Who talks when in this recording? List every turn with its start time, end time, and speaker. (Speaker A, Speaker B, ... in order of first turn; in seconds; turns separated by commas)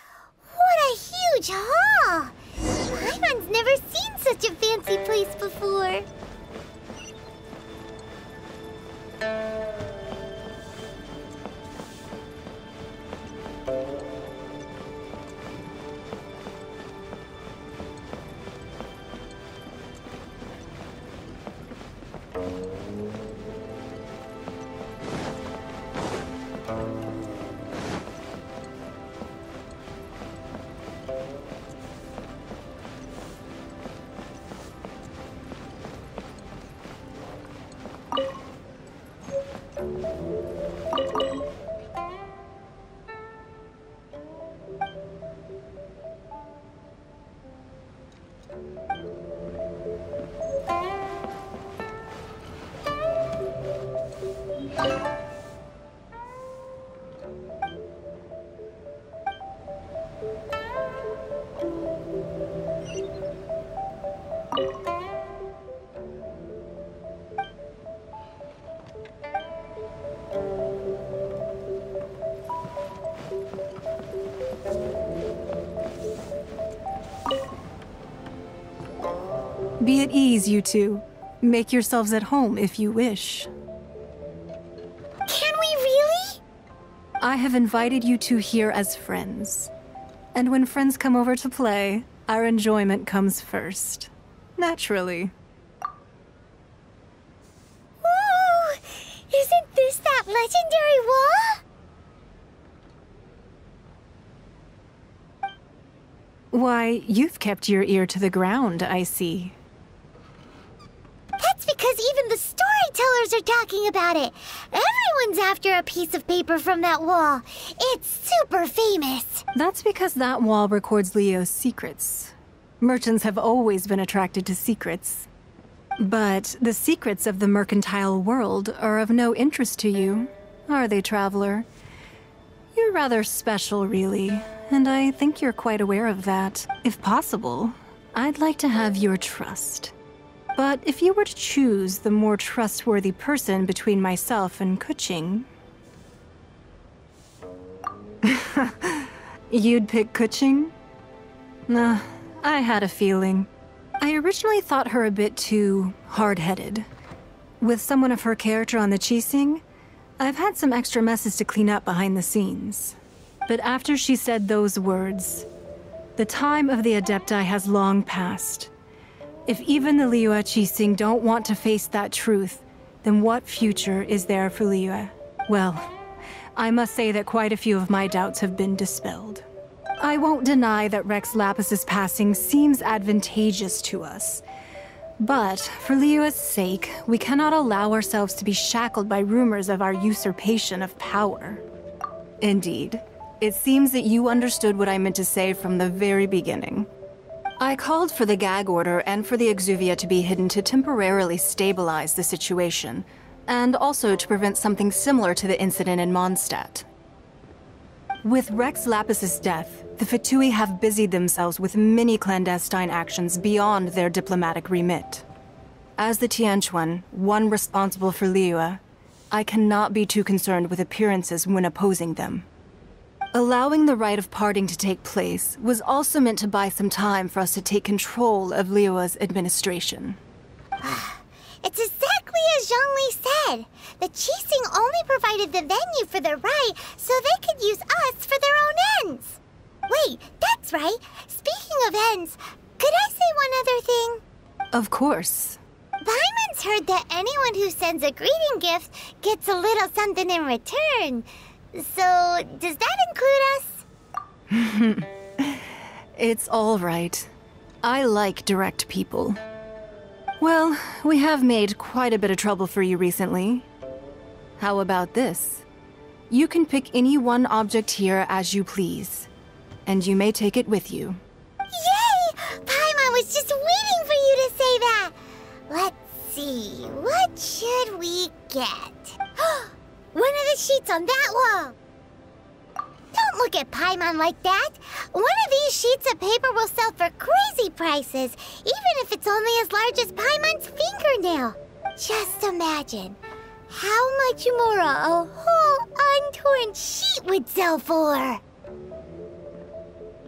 Speaker A: 0.5-6.1, Speaker B: 79.8-83.5, Speaker A: 85.3-86.4, Speaker B: 87.2-89.7, Speaker B: 90.3-95.3, Speaker A: 98.0-101.6, Speaker B: 106.5-109.5, Speaker A: 111.4-119.4, Speaker B: 119.5-125.3, Speaker B: 126.0-131.7, Speaker B: 132.7-139.9, Speaker B: 140.6-145.5, Speaker B: 148.2-150.7, Speaker B: 151.7-153.5, Speaker B: 154.0-156.9, Speaker B: 157.6-159.6, Speaker B: 160.2-165.5, Speaker B: 166.2-168.7, Speaker B: 169.5-175.9, Speaker B: 176.6-179.4, Speaker B: 180.0-184.4, Speaker B: 185.2-191.6, Speaker B: 192.4-196.9, Speaker B: 197.6-206.9, Speaker B: 208.2-215.2, Speaker B: 216.0-222.5, Speaker B: 223.3-230.2, Speaker A: 230.8-244.2, Speaker B: 244.7-245.6, Speaker A: 246.0-253.8, Speaker B: 254.5-257.3, Speaker B: 257.8-259.4, Speaker B: 260.4-263.7, Speaker B: 264.6-265.7, Speaker B: 266.3-269.3, Speaker B: 269.9-271.2, Speaker A: 271.7-275.2, Speaker A: 275.7-281.8, Speaker A: 283.1-298.4